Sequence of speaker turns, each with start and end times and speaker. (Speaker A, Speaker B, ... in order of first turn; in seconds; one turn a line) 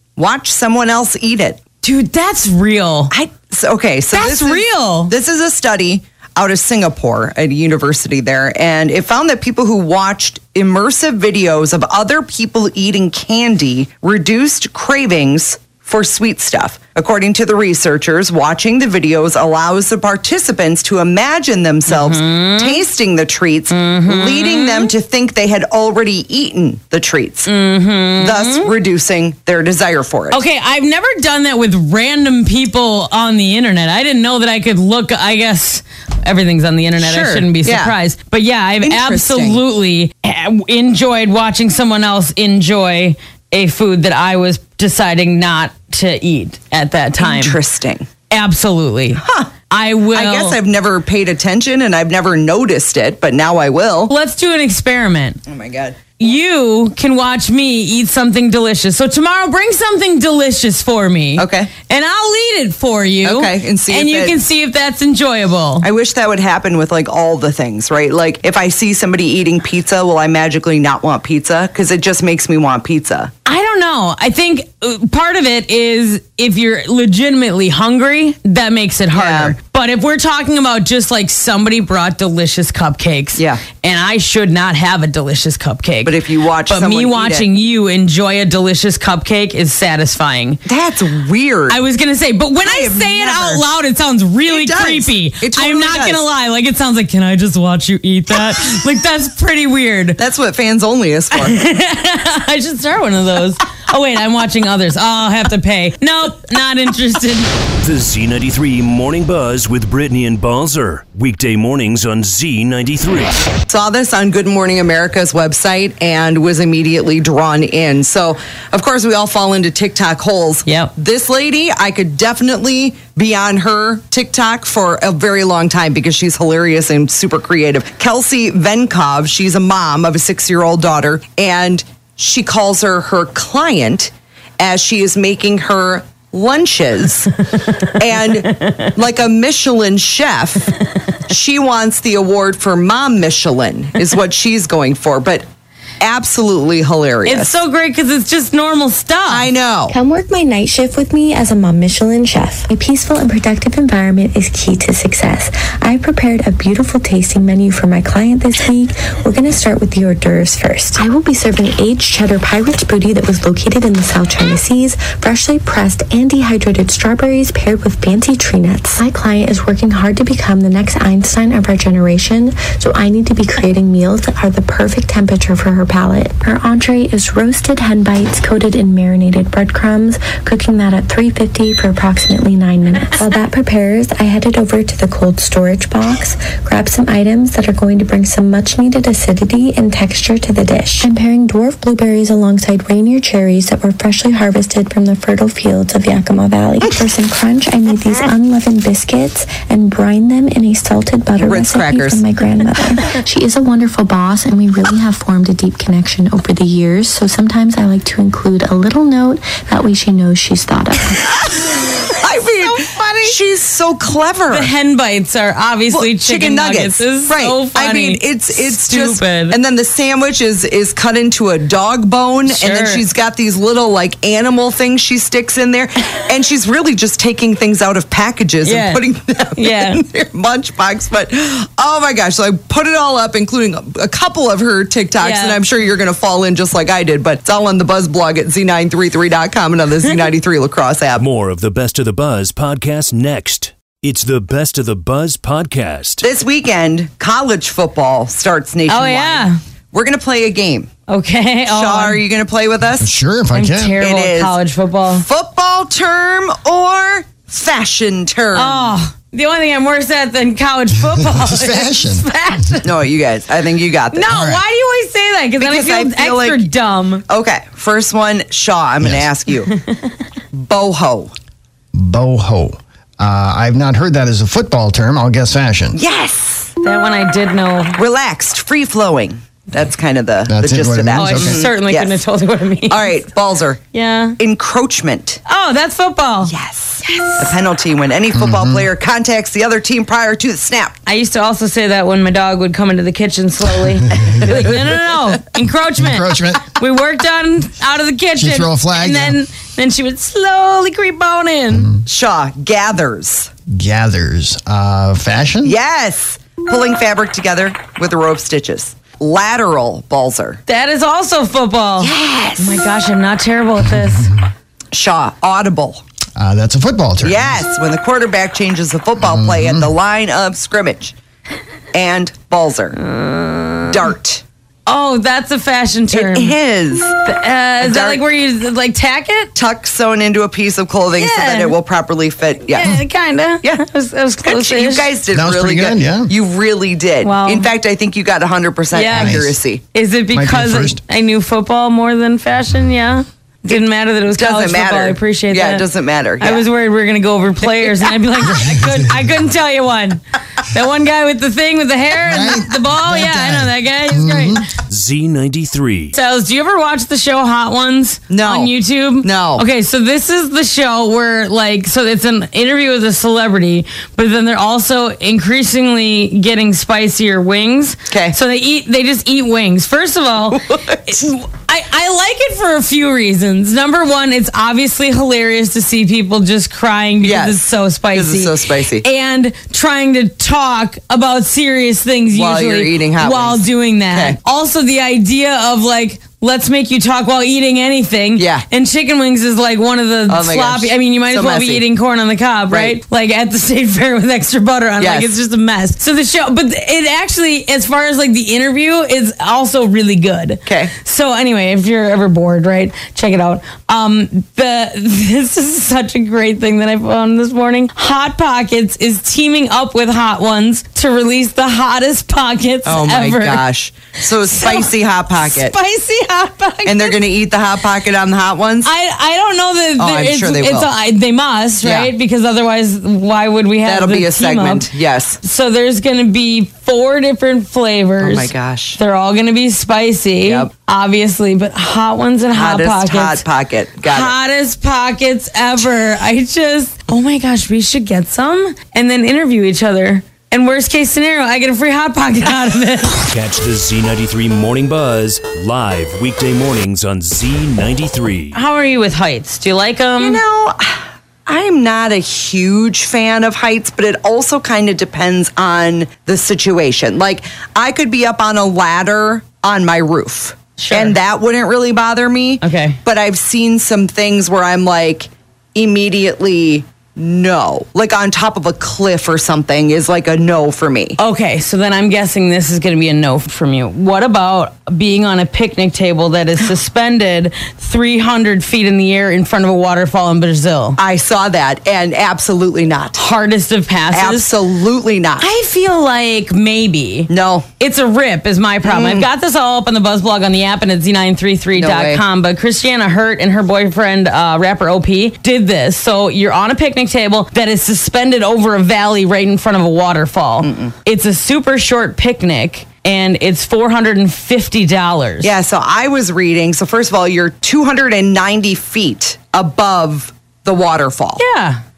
Speaker A: 0.2-1.6
Speaker B: 1.8-3.1
Speaker A: 3.1-27.5
Speaker B: 4.1-5.1
Speaker B: 21.9-22.8
Speaker B: 23.7-24.9
Speaker B: 27.5-28.7
Speaker A: 28.2-30.4
Speaker B: 30.3-47.6
Speaker A: 37.0-38.0
Speaker A: 38.8-39.6
Speaker A: 47.2-48.1
Speaker B: 48.3-50.6
Speaker A: 49.2-49.5
Speaker A: 50.1-54.1
Speaker B: 54.1-55.4
Speaker A: 55.5-56.1
Speaker B: 56.2-65.9
Speaker A: 61.4-61.7
Speaker A: 63.2-64.4
Speaker A: 65.8-73.3
Speaker B: 73.5-86.1
Speaker A: 79.1-79.6
Speaker A: 83.4-83.6
Speaker A: 86.0-87.5
Speaker B: 86.7-90.6
Speaker A: 90.7-91.8
Speaker B: 91.7-100.2
Speaker A: 92.6-93.7
Speaker A: 94.5-96.2
Speaker A: 100.2-101.6
Speaker B: 101.3-107.5
Speaker C: 107.8-113.4
Speaker A: 113.7-137.3
Speaker B: 120.7-120.9
Speaker A: 137.9-140.7
Speaker A: 141.3-145.4
Speaker A: 146.0-147.6
Speaker B: 147.2-149.5
Speaker A: 149.3-150.0
Speaker D: 149.9-211.2
Speaker A: 201.4-202.2
Speaker A: 212.2-214.7
Speaker B: 212.6-213.4
Speaker B: 214.5-219.6
Speaker A: 215.9-241.2
Speaker B: 222.5-223.0
Speaker B: 228.6-229.0
Speaker B: 229.6-230.0
Speaker B: 235.2-235.6
Speaker C: 241.2-246.2
Speaker A: 246.2-250.9
Speaker B: 248.9-249.6
Speaker B: 251.1-252.2
Speaker A: 251.7-253.1
Speaker E: 253.0-254.0
Speaker B: 253.5-255.2
Speaker A: 254.0-254.6
Speaker A: 255.1-258.9
Speaker B: 258.5-262.9
Speaker E: 261.1-262.3
Speaker A: 262.8-264.6
Speaker B: 264.1-267.2
Speaker A: 265.6-266.7
Speaker A: 267.3-269.7
Speaker E: 269.0-269.3
Speaker A: 270.5-271.3
Speaker E: 271.9-276.0
Speaker A: 275.9-276.7
Speaker B: 276.8-278.0
Speaker A: 278.0-282.2
Speaker E: 280.5-281.6
Speaker B: 281.1-283.1
Speaker A: 282.9-283.8
Speaker B: 283.9-284.4
Speaker A: 284.4-285.4
Speaker B: 285.5-286.5
Speaker A: 286.4-290.9
Speaker B: 287.0-287.5
Speaker E: 288.3-288.9
Speaker B: 291.1-301.9
Speaker E: 294.3-294.6
Speaker E: 296.0-296.7
Speaker E: 298.4-299.4
Speaker E: 301.7-302.0
Speaker A: 302.1-303.5
Speaker E: 303.7-305.8
Speaker A: 305.6-310.6
Speaker B: 310.7-314.3
Speaker A: 312.0-312.9
Speaker A: 314.9-316.0
Speaker E: 316.4-317.6
Speaker A: 317.2-321.1
Speaker E: 319.2-319.9
Speaker A: 321.9-323.0
Speaker B: 323.0-324.0
Speaker A: 323.9-324.4
Speaker B: 324.9-326.6
Speaker A: 326.1-327.2
Speaker B: 327.2-329.5
Speaker A: 327.8-328.2
Speaker A: 329.6-333.0
Speaker B: 331.2-331.8
Speaker B: 332.7-335.1
Speaker A: 334.4-339.8
Speaker E: 335.3-336.3
Speaker B: 337.2-337.7
Speaker B: 338.9-339.4
Speaker E: 339.1-339.6
Speaker B: 339.9-345.9
Speaker E: 340.3-341.0
Speaker A: 344.3-346.6
Speaker B: 346.4-354.6
Speaker E: 348.6-348.9
Speaker E: 352.2-354.6
Speaker C: 354.9-356.1
Speaker B: 356.1-413.6
Speaker A: 358.3-359.6
Speaker A: 368.1-368.4
Speaker A: 370.5-371.0
Speaker A: 377.2-379.1
Speaker A: 382.3-384.4
Speaker A: 388.4-388.6
Speaker A: 390.3-391.8
Speaker A: 392.7-393.0
Speaker A: 395.0-395.3
Speaker A: 400.7-400.9
Speaker A: 412.9-415.7
Speaker B: 414.6-414.9
Speaker B: 415.4-417.2
Speaker A: 416.9-418.9
Speaker B: 418.8-424.9
Speaker A: 420.0-420.9
Speaker A: 421.8-422.1
Speaker A: 423.9-425.4
Speaker B: 425.4-433.4
Speaker A: 428.2-429.0
Speaker A: 430.4-430.7
Speaker A: 432.5-434.3
Speaker B: 434.1-443.2
Speaker C: 443.3-448.6
Speaker B: 448.5-450.4
Speaker A: 450.2-471.2
Speaker B: 460.8-461.2
Speaker B: 462.6-463.0
Speaker B: 471.2-481.0
Speaker A: 481.0-483.2
Speaker B: 483.1-484.5
Speaker A: 484.1-485.5
Speaker B: 485.4-505.5
Speaker A: 487.3-487.7
Speaker A: 488.8-489.3
Speaker A: 491.8-492.2
Speaker A: 500.6-500.9
Speaker A: 505.4-511.4
Speaker B: 511.4-511.8